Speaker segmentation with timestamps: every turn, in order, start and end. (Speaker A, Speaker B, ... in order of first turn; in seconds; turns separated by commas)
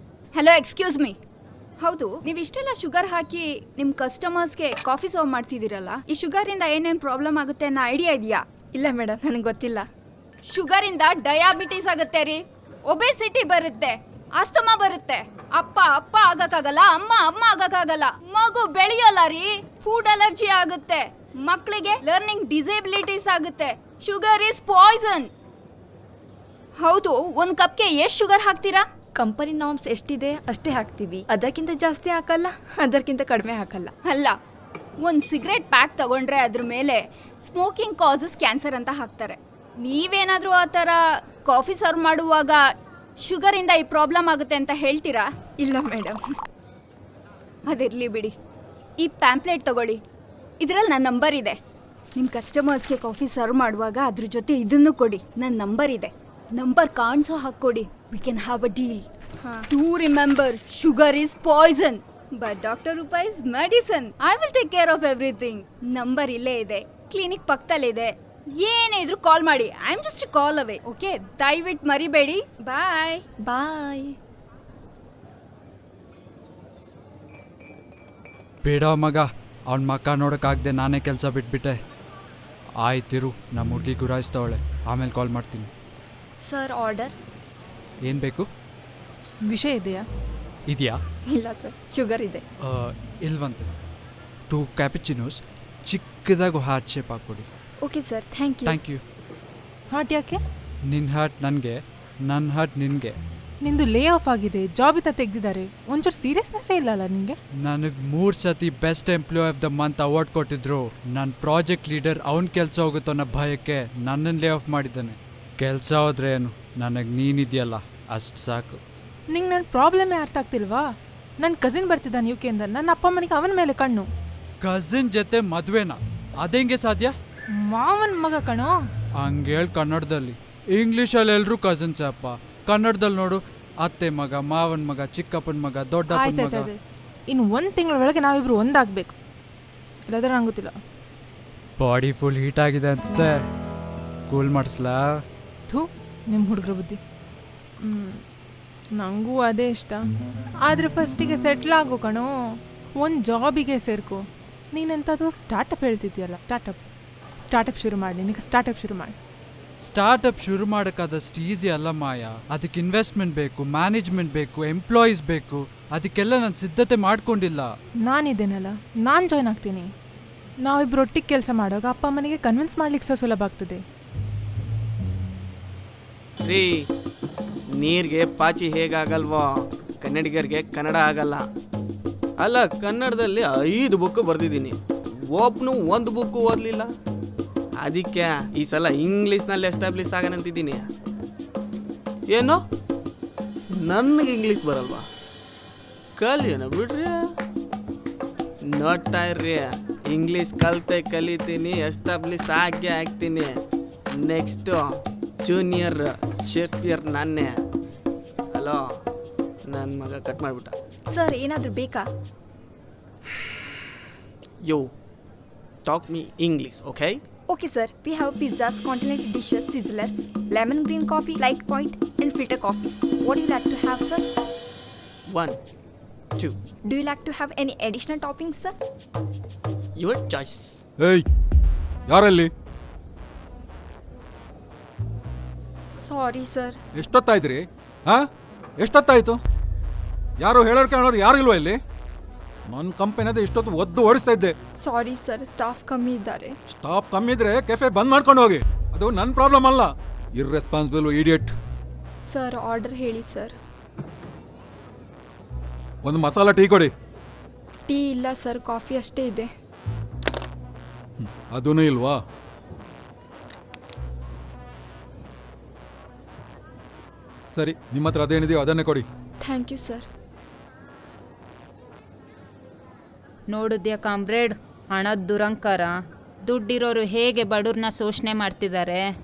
Speaker A: 0.3-1.2, Speaker A: 1.8-8.4, Speaker B: 8.7-9.9, Speaker A: 10.4-25.3, Speaker A: 26.8-28.9, Speaker B: 29.1-33.9, Speaker A: 34.0-34.4, Speaker A: 35.0-42.6, Speaker A: 43.2-45.2, Speaker B: 45.6-46.2, Speaker A: 47.6-48.3, Speaker A: 49.0-50.0, Speaker A: 50.6-51.6, Speaker A: 52.1-73.3, Speaker B: 73.4-74.1, Speaker C: 78.6-81.8, Speaker C: 82.8-85.7, Speaker B: 86.4-87.1, Speaker C: 88.0-88.5, Speaker D: 89.4-90.0, Speaker C: 90.7-91.0, Speaker B: 91.3-92.4, Speaker C: 92.6-93.7, Speaker C: 94.5-97.5, Speaker B: 97.8-98.8, Speaker C: 98.7-99.0, Speaker D: 99.9-100.4, Speaker C: 100.9-103.2, Speaker D: 103.6-107.4, Speaker C: 107.6-118.8, Speaker D: 119.3-120.8, Speaker D: 121.4-124.1, Speaker C: 124.6-127.1, Speaker D: 127.6-128.7, Speaker C: 129.2-136.7, Speaker D: 136.1-136.7, Speaker D: 137.3-139.1, Speaker D: 140.1-140.8, Speaker C: 141.8-143.4, Speaker C: 144.3-145.2, Speaker D: 145.7-147.0, Speaker D: 147.8-148.2, Speaker D: 148.9-150.0, Speaker D: 150.7-152.3, Speaker D: 152.9-154.2, Speaker D: 154.7-156.8, Speaker D: 157.4-159.1, Speaker C: 159.8-167.7, Speaker D: 168.1-169.9, Speaker D: 170.6-173.8, Speaker E: 176.4-176.8, Speaker E: 177.8-181.4, Speaker E: 182.4-184.8, Speaker E: 185.3-186.9, Speaker E: 187.8-190.8, Speaker E: 192.3-192.6, Speaker E: 193.7-195.0, Speaker E: 196.2-197.3, Speaker E: 198.7-203.6, Speaker E: 204.2-207.6, Speaker E: 208.5-208.8, Speaker E: 209.7-210.7, Speaker B: 211.1-212.1, Speaker E: 214.6-214.9, Speaker E: 215.8-217.2, Speaker B: 217.5-224.2, Speaker E: 225.3-225.6, Speaker B: 226.9-228.7, Speaker E: 230.0-230.8, Speaker F: 231.0-231.2, Speaker F: 232.1-232.5, Speaker B: 235.9-236.8, Speaker F: 236.9-238.3, Speaker F: 238.8-239.4, Speaker F: 240.4-241.8, Speaker F: 242.7-244.5, Speaker B: 244.8-246.6, Speaker F: 246.7-251.5, Speaker B: 252.3-253.6, Speaker F: 256.0-256.9, Speaker B: 257.9-259.5, Speaker F: 261.2-262.2, Speaker F: 267.5-269.1, Speaker B: 269.4-270.1, Speaker G: 273.5-279.1